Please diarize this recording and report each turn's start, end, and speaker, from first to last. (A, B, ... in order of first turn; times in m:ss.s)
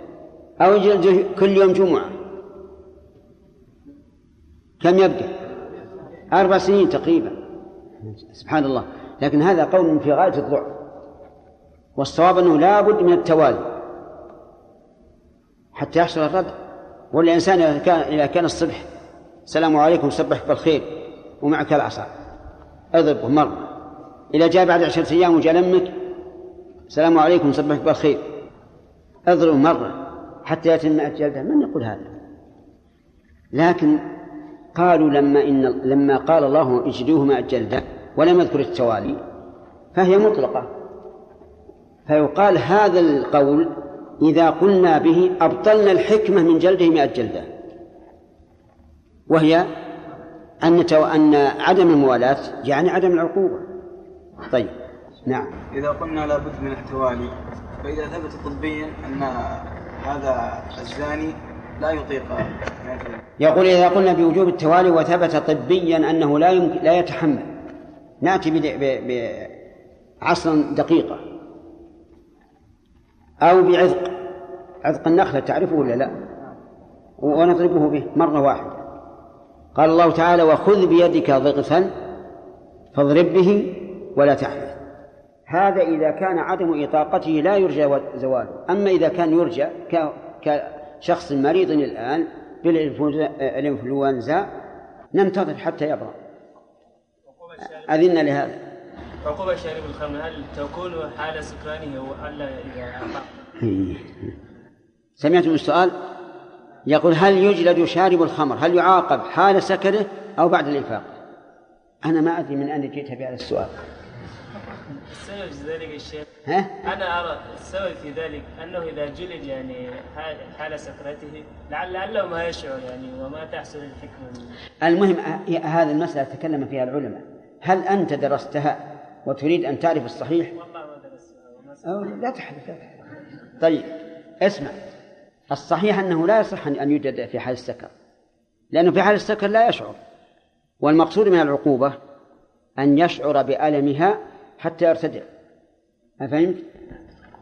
0:00.6-0:02.1 A
0:04.8-0:05.4 A
0:06.3-0:07.4 A
0:08.3-0:10.7 A
0:12.0-0:13.8 A
0:15.7-0:16.5 A
0:17.1-0:18.9 A
0:19.5-0:22.1 A
0:22.9-0:23.7 A
0:24.3-0:25.9 A
0:26.9-0:28.2 A
0:29.3-0:32.1 A
0:33.5-0:34.0 A
0:34.7-0:39.2 A
0:39.9-0:40.7 A
0:42.1-0:47.5 A
0:49.3-0:49.7 A
0:50.6-0:53.6 A
0:55.3-0:55.6 A
0:55.7-1:03.2 B
1:03.4-1:07.5 A
1:08.2-1:09.5 A
1:10.2-1:11.2 A
1:13.4-1:14.1 A
1:14.8-1:16.1 A
1:17.2-1:18.8 A
1:19.7-1:21.9 A
1:22.9-1:24.8 A
1:25.5-1:34.5 A
1:35.1-1:36.2 A
1:37.4-1:37.9 C
1:37.9-1:38.6 A
1:39.2-1:43.3 C
1:43.6-1:44.3 A
1:45.2-1:45.9 A
1:46.9-1:51.1 A
1:52.0-1:53.7 A
1:54.9-1:56.2 C
1:56.5-1:56.7 A
1:56.8-2:04.5 C
2:04.8-2:10.5 A
2:10.5-2:11.9 C
2:11.8-2:13.0 A
2:13.6-2:13.9 A
2:14.4-2:14.8 A
2:15.5-2:17.9 A
2:18.7-2:20.0 A
2:20.8-2:22.0 A
2:22.8-2:25.3 A
2:26.2-2:26.6 A